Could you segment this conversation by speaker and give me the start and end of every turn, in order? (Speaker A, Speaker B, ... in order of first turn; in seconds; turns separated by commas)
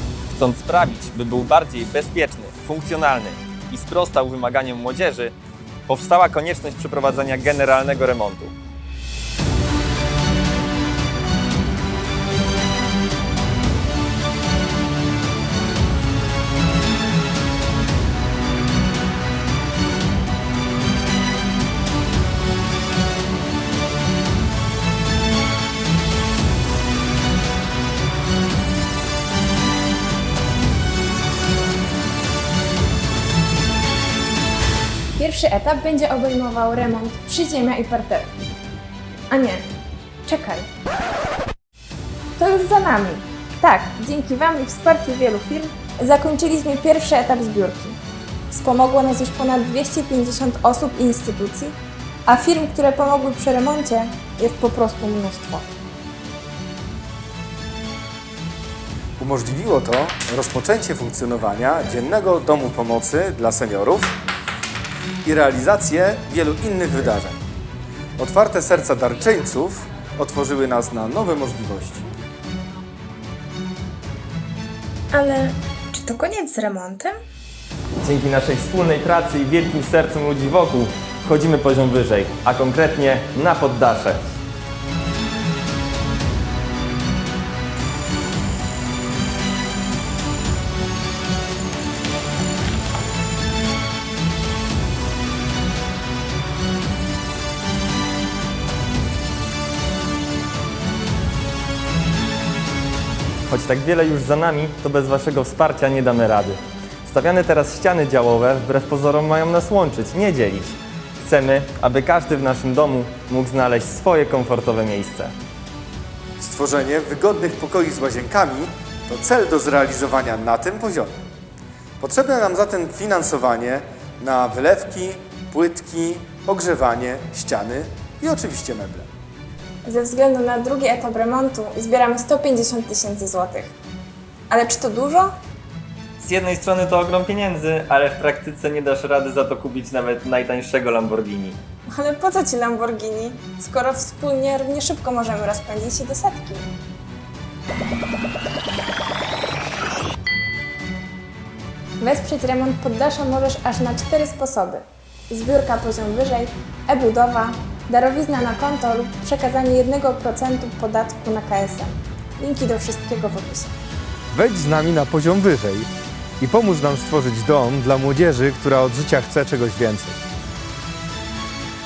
Speaker A: 0.3-5.3, Speaker A: 5.9-8.5, Speaker B: 35.2-38.3, Speaker B: 39.3-39.6, Speaker B: 40.2-40.7, Speaker B: 42.4-48.0, Speaker B: 48.5-55.7, Speaker C: 59.2-64.2, Speaker C: 65.2-67.4, Speaker C: 68.2-72.1, Speaker B: 75.1-77.2, Speaker A: 78.0-84.3, Speaker A: 103.5-115.3, Speaker C: 116.4-121.1, Speaker C: 122.0-129.1, Speaker B: 129.8-133.7, Speaker B: 134.5-135.3, Speaker A: 136.2-141.6, Speaker B: 141.9-146.7, Speaker B: 152.0-163.7, Speaker C: 164.3-170.2